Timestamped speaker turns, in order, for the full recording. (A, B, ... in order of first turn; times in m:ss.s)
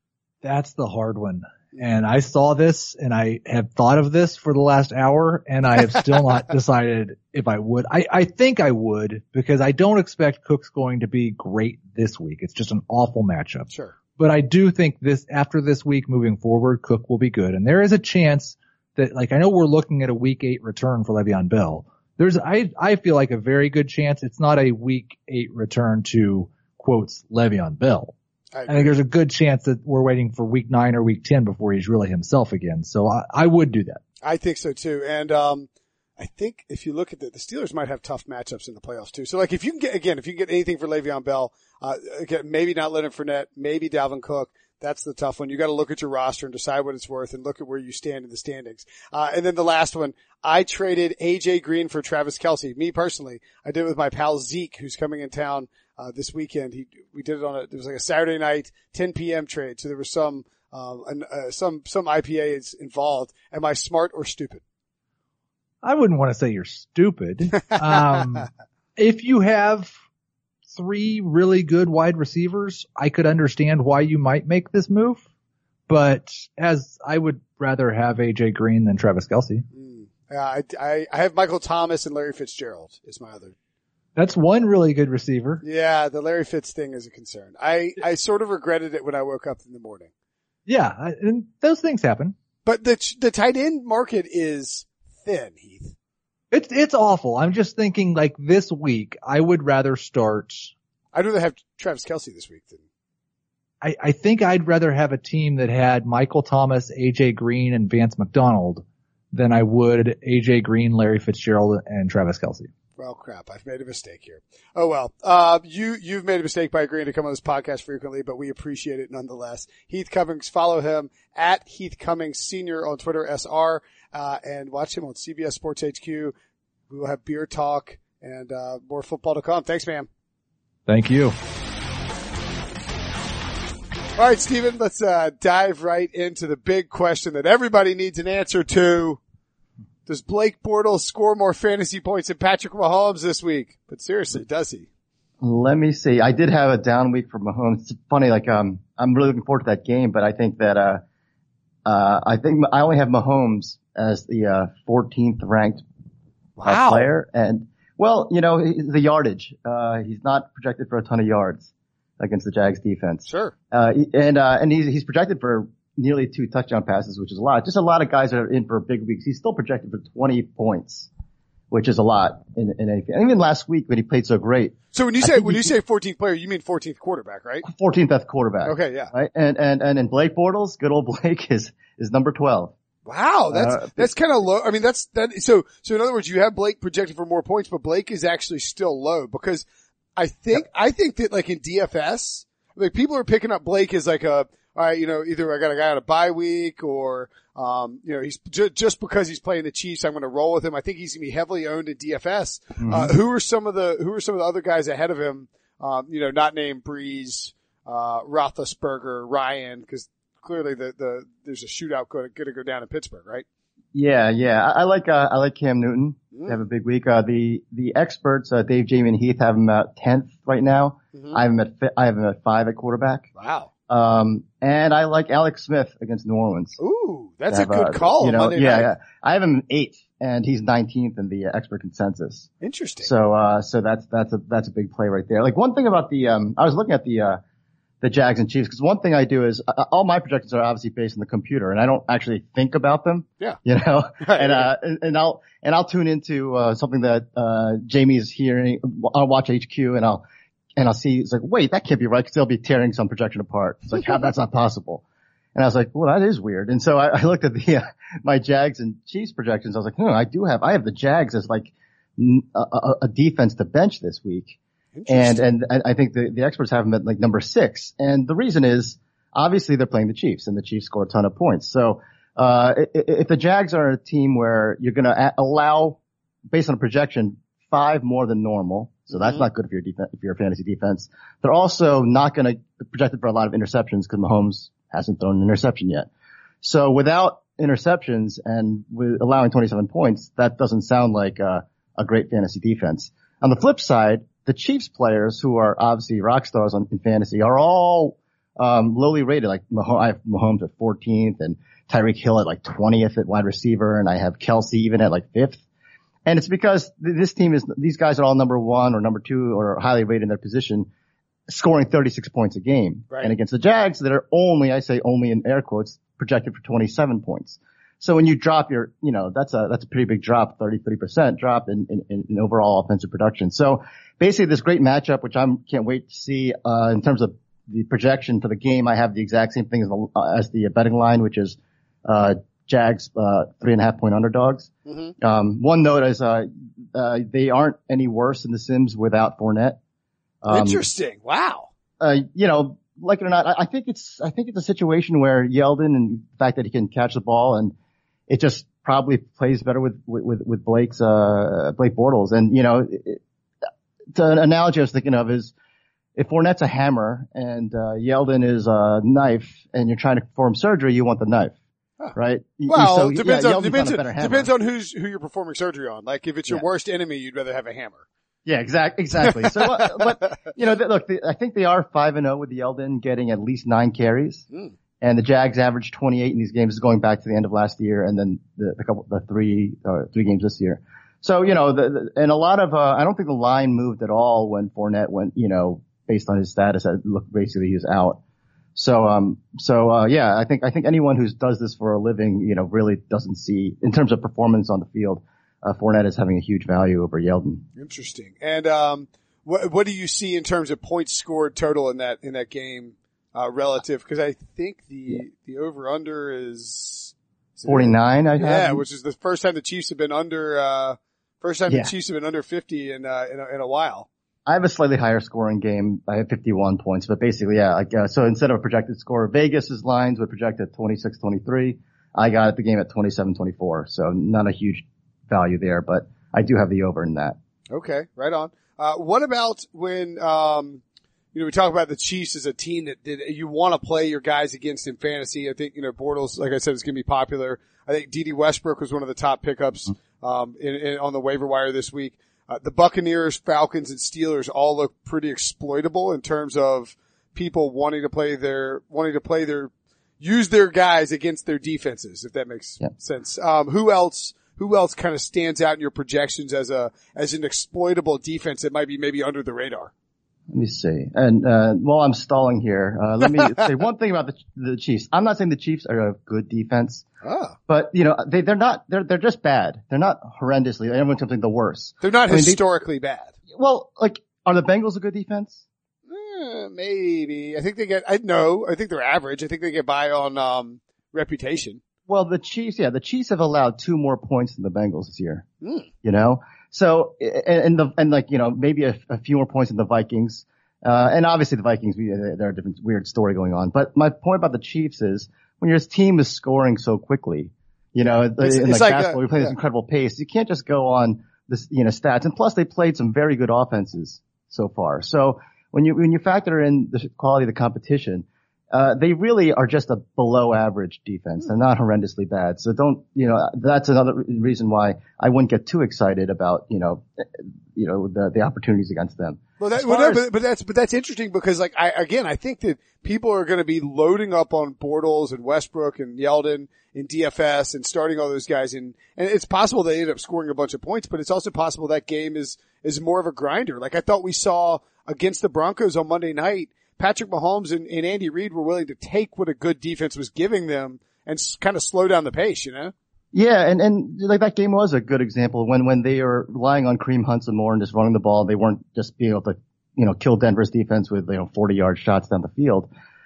0:00.4-0:28.2 A
0:13.7-0:14.0 B
0:28.5-0:28.9 B
0:28.7-0:34.0 A
0:34.2-1:04.6 B
1:05.8-1:09.9 A
1:07.7-1:08.0 B
1:10.7-1:15.3 A
1:15.9-1:19.7 A
1:19.7-1:23.6 B
1:24.2-1:25.6 A
1:25.6-1:30.1 B
1:30.7-1:32.4 A
1:32.6-1:36.0 B
1:36.5-1:40.7 A
1:41.1-1:42.8 B
1:43.8-1:52.7 A
1:53.0-2:06.3 B
2:06.9-2:10.1 B
2:10.9-2:11.4 A
2:14.2-2:19.2 B
2:20.1-2:24.9 B
2:25.4-2:31.0 C
2:31.8-2:35.8 C
2:36.6-2:37.1 B
2:36.6-2:51.1 C
2:43.2-2:43.5 B
2:51.7-2:55.7 C
2:54.9-2:57.6 B
2:57.6-3:02.8 C
2:58.6-2:59.1 B
3:03.1-3:33.4 B
3:03.5-3:04.1 C
3:22.8-3:23.1 C
3:33.9-3:43.3 C
3:41.2-3:41.4 B
3:43.4-3:43.7 B
3:43.9-3:46.8 C
3:46.8-3:48.9 B
3:47.5-3:52.5 C
3:52.6-3:53.1 B
3:53.0-3:57.4 C
3:58.0-4:10.2 C
4:04.2-4:04.7 B
4:10.8-4:15.0 C
4:15.6-4:24.6 C
4:25.0-4:25.4 B
4:25.1-4:36.0 C
4:36.5-4:46.1 C
4:39.1-4:39.4 B
4:46.6-5:05.6 C
5:06.3-5:10.9 C
5:11.5-5:39.8 C
5:34.9-5:35.1 B
5:40.4-5:40.8 C
5:40.5-5:41.7 B
5:42.0-5:47.7 C
5:48.3-5:53.2 C
5:54.1-5:55.5 C
5:56.2-6:01.6 C
6:02.2-6:04.5 C
6:02.7-6:08.0 B
6:08.5-6:14.5 C
6:09.4-6:10.0 B
6:15.0-6:28.2 C
6:28.8-6:37.7 C
6:37.8-6:54.1 B
6:47.7-6:48.8 C
6:54.5-7:07.4 C
7:07.7-7:10.8 B
7:11.3-7:39.9 B
7:40.5-7:47.0 C
7:43.4-7:43.6 B
7:47.2-7:47.6 B
7:47.7-7:52.6 C
7:52.0-7:53.3 B
7:53.5-7:55.6 C
7:56.1-8:01.8 B
8:02.1-8:05.5 C
8:06.0-8:40.2 C
8:18.1-8:19.5 B
8:39.6-9:02.9 B
9:03.3-9:12.9 C